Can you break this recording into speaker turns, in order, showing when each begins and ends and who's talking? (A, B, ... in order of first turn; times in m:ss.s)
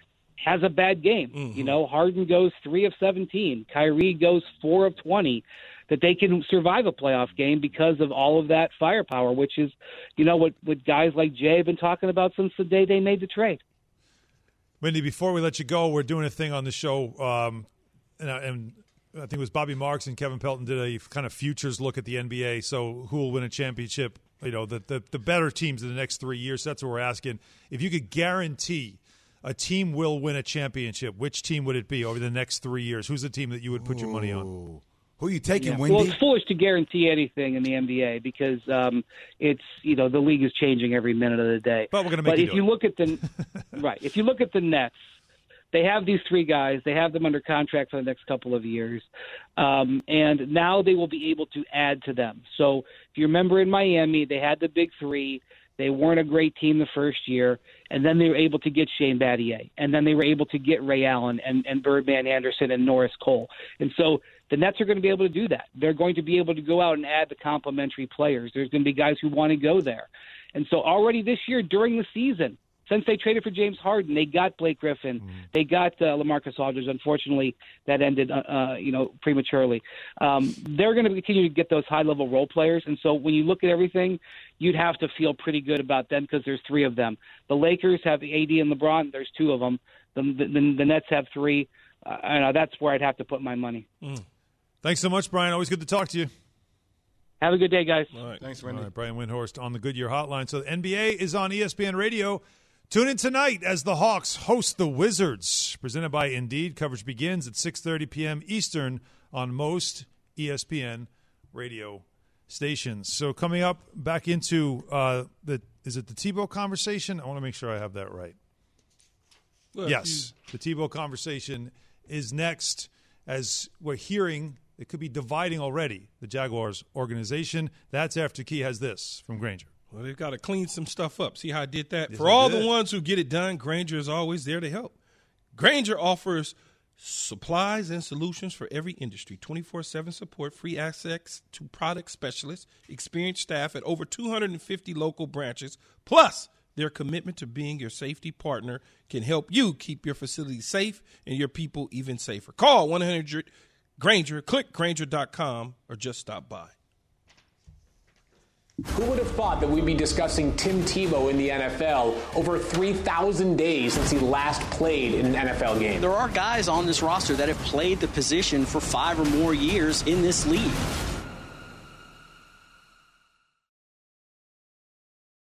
0:00.4-0:13.6 A
0:01.3-0:01.8 B
0:14.8-0:17.7 C
0:18.2-0:34.5 C
0:33.7-0:36.2 D
0:35.6-0:43.2 A
0:41.9-0:42.6 C
0:43.7-0:44.9 A
0:45.7-1:33.9 A
1:34.8-1:36.3 C
1:37.4-1:38.1 A
1:38.1-1:38.4 B
1:38.4-1:38.9 D
1:38.6-1:58.3 C
1:59.7-2:00.3 B
1:59.8-2:09.7 C
2:09.9-2:14.9 B
2:12.1-2:12.7 C
2:15.5-2:36.7 B
2:38.9-2:46.1 E
2:46.0-2:50.9 F